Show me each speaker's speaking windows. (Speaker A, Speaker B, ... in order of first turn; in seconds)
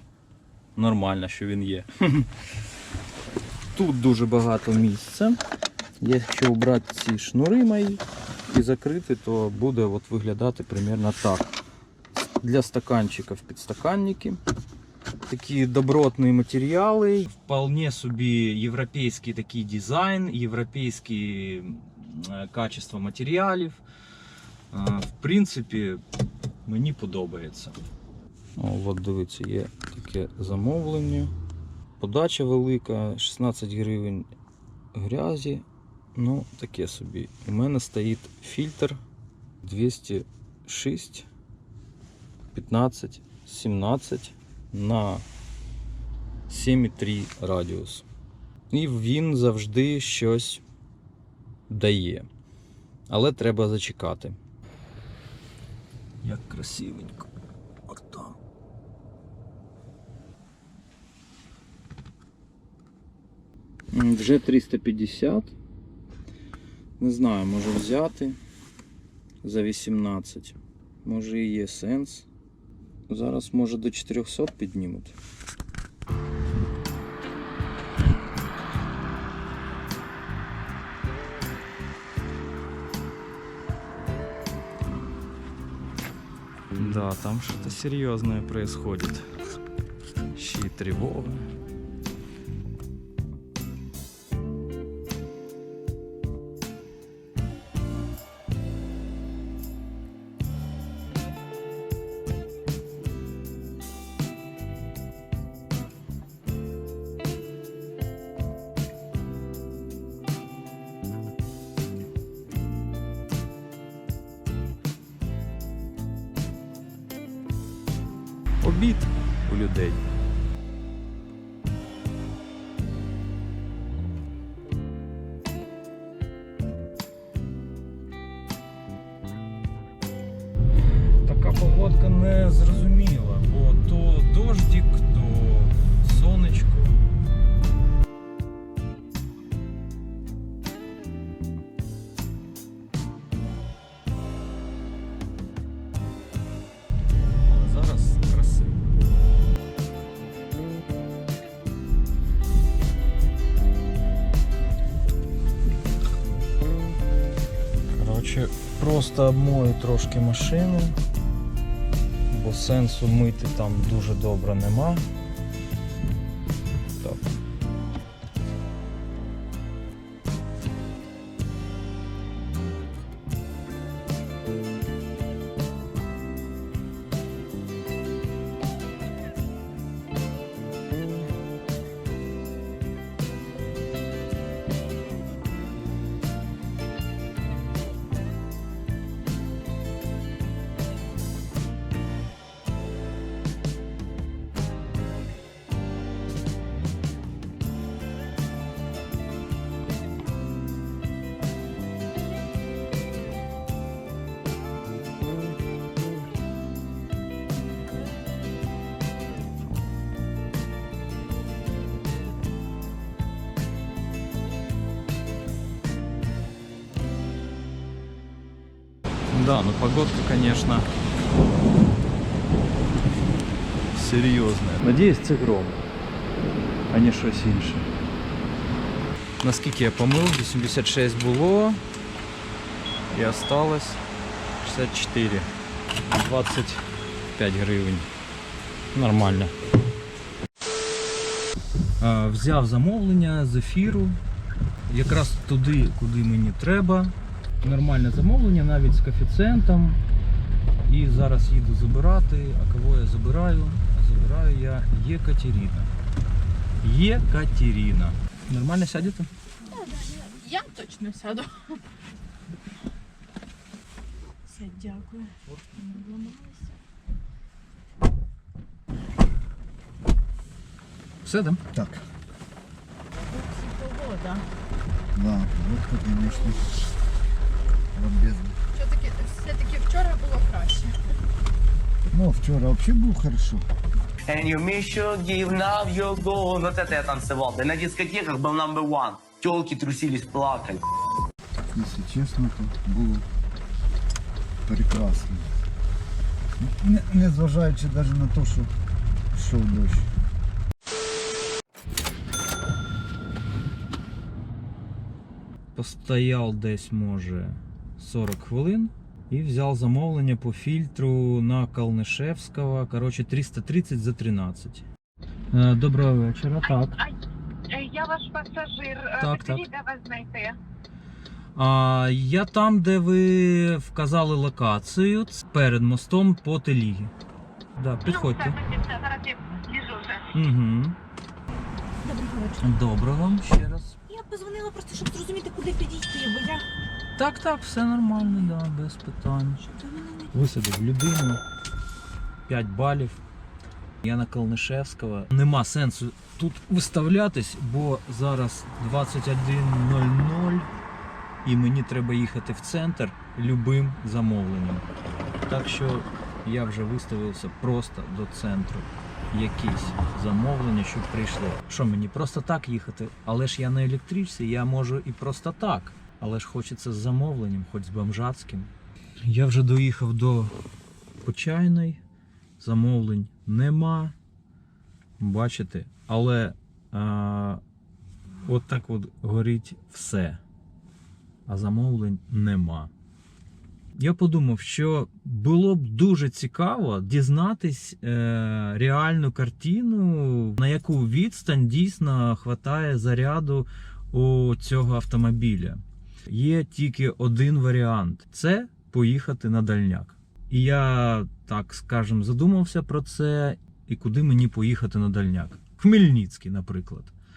Speaker A: 0.8-2.3, 3.7-5.4, 6.0-11.5, 12.4-14.4, 15.3-23.8, 24.7-26.0, 26.6-27.8, 28.6-31.3, 32.0-34.3, 34.9-35.6, 36.1-39.0, 39.6-41.3, 42.5-45.2, 46.5-48.0, 48.7-50.6, 51.7-52.3, 53.1-54.4, 56.2-57.3, 57.9-58.4, 63.9-65.5, 67.0-68.4, 69.4-72.3, 73.1-75.1, 86.8-89.3, 90.3-91.5, 118.6-120.0, 131.2-137.0, 147.4-148.8, 157.9-161.0, 162.3-165.1, 167.0-167.3, 219.3-220.9, 223.9-225.8, 226.9-227.9, 229.4-231.8, 233.1-234.0, 234.6-235.5, 236.1-238.1, 238.9-239.5, 242.0-244.2, 244.9-250.0, 250.8-255.9, 256.8-259.3, 271.2-271.6, 305.7-314.9, 315.5-316.9, 319.2-319.6, 321.6-327.1, 327.8-328.6, 330.3-331.0, 332.6-334.0, 337.1-339.6, 340.3-341.4, 342.5-343.2, 344.0-350.7, 351.4-354.8, 355.4-368.7, 369.2-370.5, 371.2-372.0, 372.6-374.1, 375.2-377.6, 378.4-380.4, 381.5-382.9, 384.0-407.1
Speaker B: 259.6-261.8, 264.4-266.7, 273.1-274.4, 276.2-276.6, 278.7-281.0, 332.0-332.6, 334.1-336.6, 338.2-338.5, 339.6-340.3
Speaker C: 271.7-272.0, 275.1-276.7, 277.9-278.6, 282.1-283.7, 291.7-293.3, 294.6-295.6, 296.6-298.7, 299.3-300.1
Speaker D: 284.3-290.8
Speaker E: 316.6-317.2, 317.7-320.6, 328.0-330.4